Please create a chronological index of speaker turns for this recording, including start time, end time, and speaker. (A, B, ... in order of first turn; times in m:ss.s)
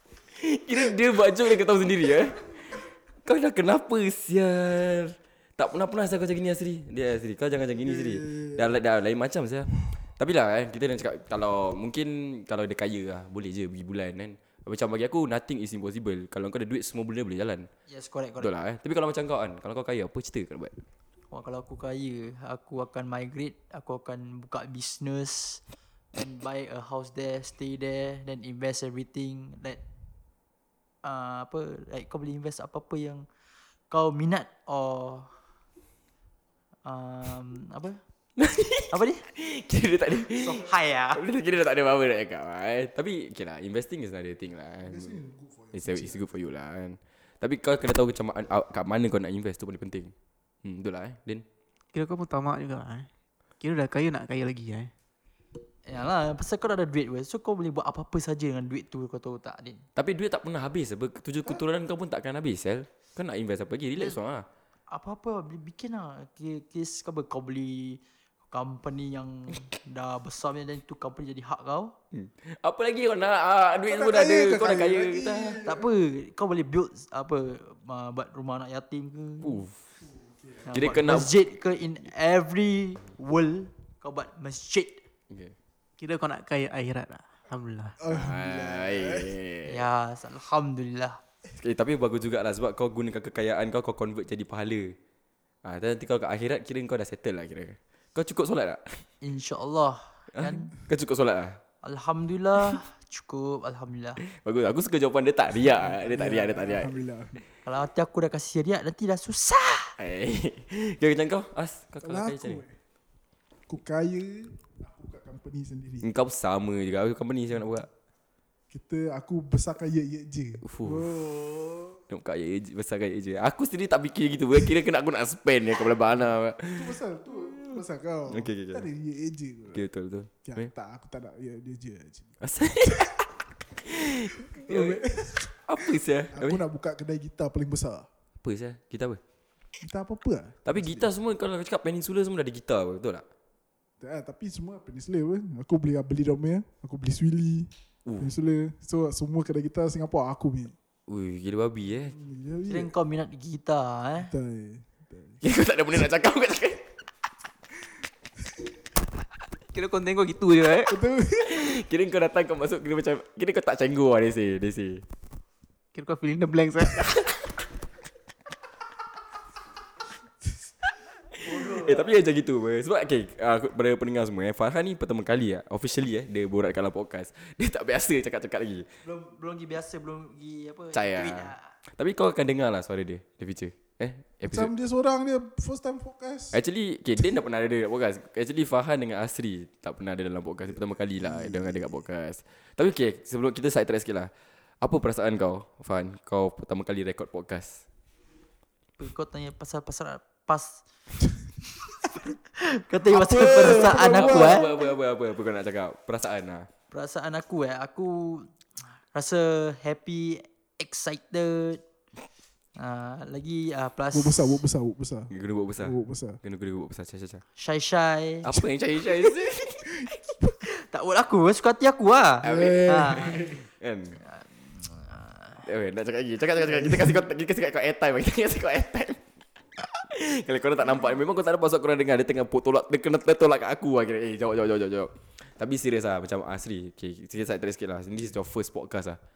0:00.4-0:17.7 A
0:07.8-0:08.6 B
0:17.9-0:18.5 C
0:18.4-0:20.8 A
0:21.3-0:25.6 C
0:26.1-0:29.8 C
0:31.0-0:33.2 C
0:33.9-0:35.4 C
0:36.8-0:38.0 C
0:38.4-0:45.2 A
0:38.9-0:39.2 C
0:40.4-0:41.2 C
0:44.8-0:46.3 B
0:45.7-0:50.1 A
0:50.6-0:51.4 A
0:51.9-0:53.1 D
0:53.6-0:54.9 D
0:55.8-0:59.8 C
1:00.0-1:04.4 A
1:04.9-1:11.9 C
1:12.1-1:15.6 A
1:13.8-1:15.8 B
1:15.6-1:19.6 C
1:19.4-1:19.7 A
1:20.0-1:20.7 B
1:20.6-1:25.0 C
1:20.7-1:21.3 A
1:26.0-1:28.0 D
1:28.0-1:29.3 B
1:28.1-1:29.8 A
1:29.7-1:31.2 C
1:31.6-1:34.9 A
1:35.6-1:39.0 A
1:39.2-1:40.7 C
1:40.3-1:41.6 A
1:41.8-1:44.2 C
1:44.2-1:46.9 A
1:45.7-1:47.4 B
1:47.6-1:49.9 C
1:50.0-1:52.6 A
1:52.0-1:52.7 B
1:53.7-1:56.1 B
1:56.0-1:57.9 A
1:58.7-2:02.0 B
2:00.6-2:01.1 A
2:02.1-2:07.0 A
2:06.7-2:09.8 B
2:07.6-2:08.9 A
2:09.7-2:10.7 A
2:10.4-2:13.1 B
2:12.4-2:13.2 A
2:13.8-2:15.0 A
2:14.5-2:18.1 B
2:15.6-2:16.6 A
2:18.4-2:19.2 A
2:19.8-2:21.1 B
2:20.6-2:23.2 A
2:24.0-2:30.7 B
2:31.1-2:32.1 A
2:32.1-2:32.9 B
2:32.7-2:34.3 C
2:34.2-2:35.4 B
2:35.4-2:36.9 A
2:39.7-2:41.0 D
2:40.9-2:41.7 B
2:41.4-2:45.0 A
2:45.9-2:47.2 D
2:51.3-2:58.9 A
2:51.4-2:52.1 C
2:59.0-3:01.7 C
3:00.9-3:04.7 A
3:04.4-3:06.6 B
3:06.5-3:14.3 A
3:10.7-3:12.0 B
3:14.8-3:17.8 A
3:19.0-3:20.8 C
3:22.4-3:24.7 C
3:23.1-3:26.7 A
3:23.4-3:24.8 B
3:26.9-3:31.8 C
3:32.8-3:34.6 C
3:34.1-3:36.4 B
3:35.3-3:37.4 A
3:37.6-3:38.5 C
3:38.4-3:39.9 A
3:40.6-3:43.4 C
3:42.4-3:43.6 B
3:42.4-3:44.2 A
3:44.3-3:45.6 C
3:45.6-3:49.2 A
3:46.8-3:47.1 B
3:49.8-3:59.2 A